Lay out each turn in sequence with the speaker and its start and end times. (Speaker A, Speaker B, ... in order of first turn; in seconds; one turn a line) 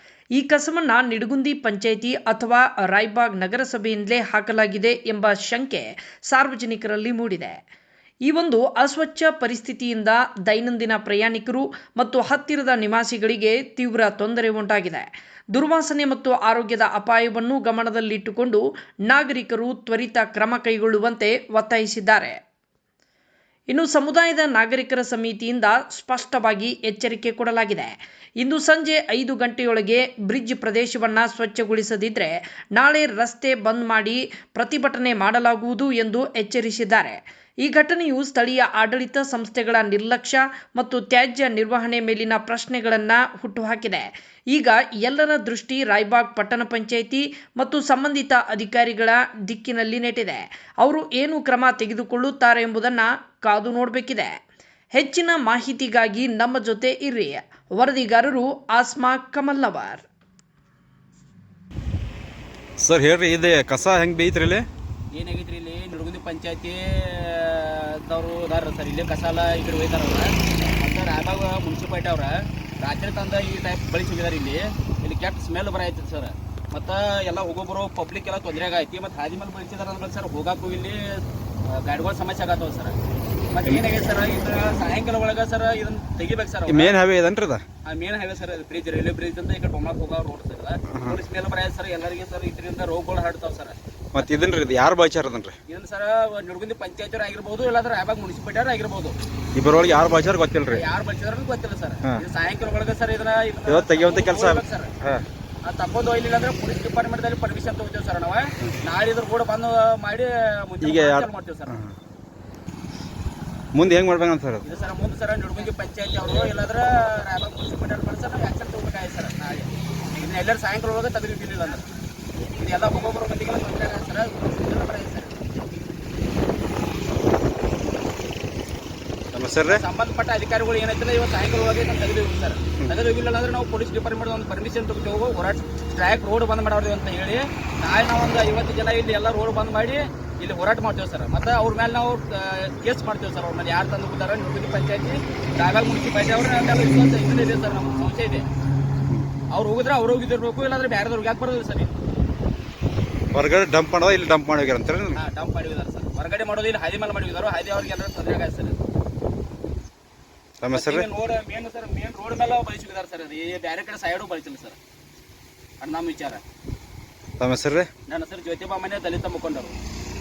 Speaker A: 0.4-7.6
Speaker A: 8.3-22.4
Speaker A: 23.7-54.3
Speaker A: 54.9-60.0
Speaker B: 62.8-64.7
Speaker C: 65.1-82.9
Speaker C: 83.5-86.9
Speaker B: 86.7-87.6
Speaker C: 87.9-94.2
Speaker B: 90.9-91.2
Speaker B: 94.1-95.6
Speaker C: 95.7-99.1
Speaker B: 99.5-100.8
Speaker C: 100.7-104.9
Speaker B: 103.7-105.2
Speaker C: 105.7-111.8
Speaker B: 110.8-111.9
Speaker B: 113.7-114.6
Speaker C: 114.6-121.8
Speaker C: 122.6-125.4
Speaker B: 129.3-129.8
Speaker C: 129.7-148.5
Speaker C: 149.5-151.9
Speaker B: 153.3-155.2
Speaker C: 155.2-158.8
Speaker B: 160.6-161.1
Speaker C: 160.7-164.8
Speaker C: 165.8-166.4
Speaker B: 167.4-167.9
Speaker C: 168.1-169.7